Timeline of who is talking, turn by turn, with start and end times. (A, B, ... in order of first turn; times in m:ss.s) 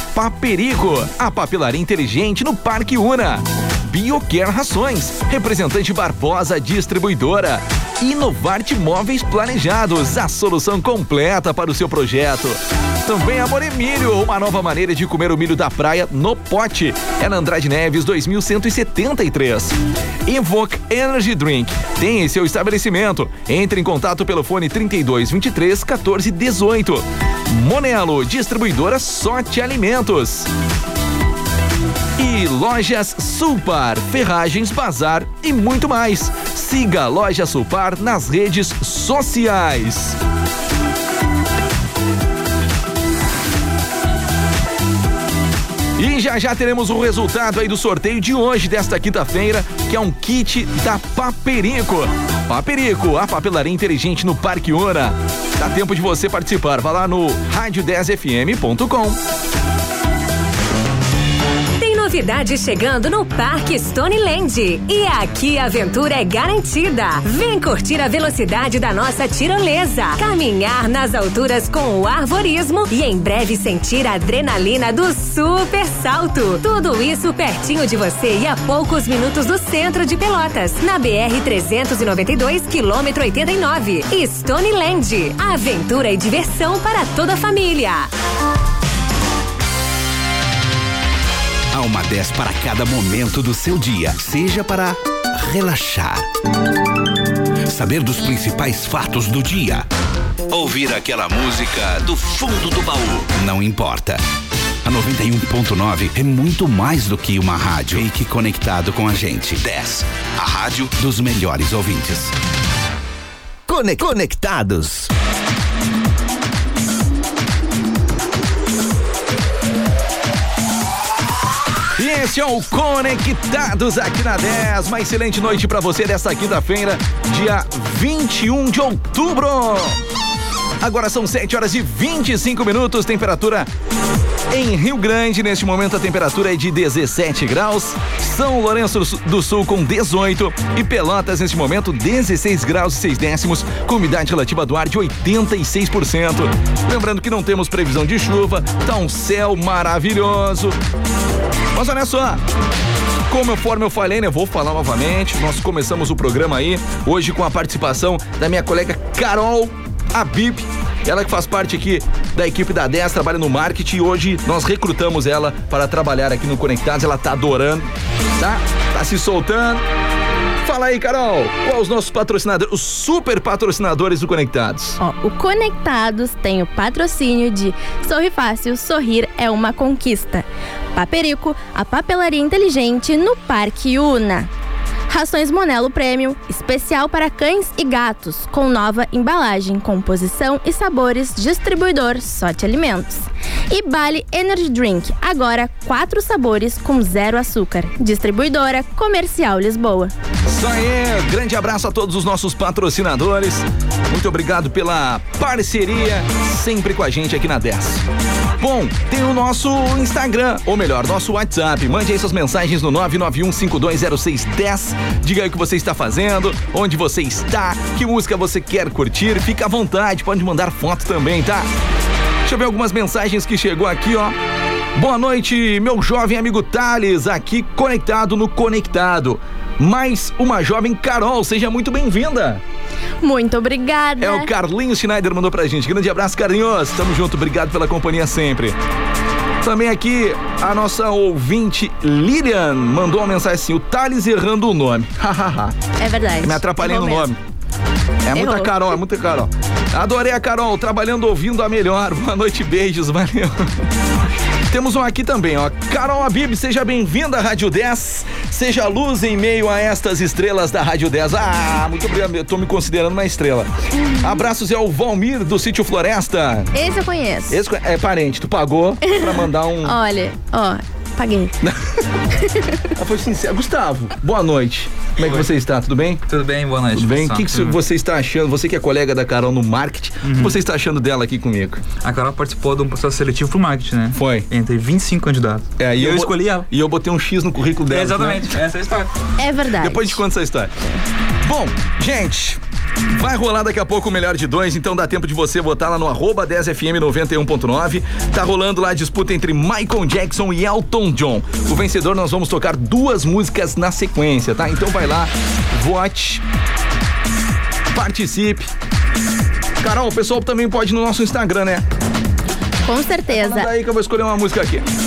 0:00.1-0:30.5 A
0:32.2-0:40.2 A
0:46.0-0:59.2 A
1:01.8-1:28.1 B
1:31.7-1:36.3 C
1:37.7-1:39.9 C
1:40.5-1:44.2 C
1:44.8-1:52.3 C
1:53.7-1:55.1 C
2:02.0-2:10.0 A
2:10.8-2:13.7 A
2:14.5-2:30.8 A
2:31.7-2:32.4 A
2:33.3-2:49.8 A
2:50.6-2:55.0 A
2:55.0-3:04.5 D
3:05.1-3:20.1 D
3:20.4-3:28.0 A
3:28.6-3:41.7 A
3:42.4-3:44.4 A
3:44.9-3:52.6 A
3:53.2-3:54.5 D
3:54.2-3:58.8 A
3:59.6-4:05.8 A
4:06.0-4:07.3 D
4:06.4-4:07.4 A
4:08.2-4:13.8 A
4:08.4-4:08.9 D
4:14.7-4:26.7 A
4:23.9-4:24.4 D
4:26.7-4:27.6 D
4:27.5-4:30.0 A
4:29.0-4:31.5 D
4:31.6-4:32.0 A
4:32.4-4:32.8 D
4:33.0-4:36.2 A
4:36.3-4:37.3 E
4:36.9-4:41.8 A
4:42.0-4:44.0 E
4:44.1-4:44.5 A
4:44.5-4:46.3 E
4:45.8-4:48.6 A
4:48.0-4:49.0 E
4:49.4-4:50.2 D
4:49.8-4:50.7 A
4:51.4-5:06.4 A
5:07.9-5:08.7 A
5:09.8-5:11.8 A
5:12.8-5:13.7 D
5:13.3-5:14.9 A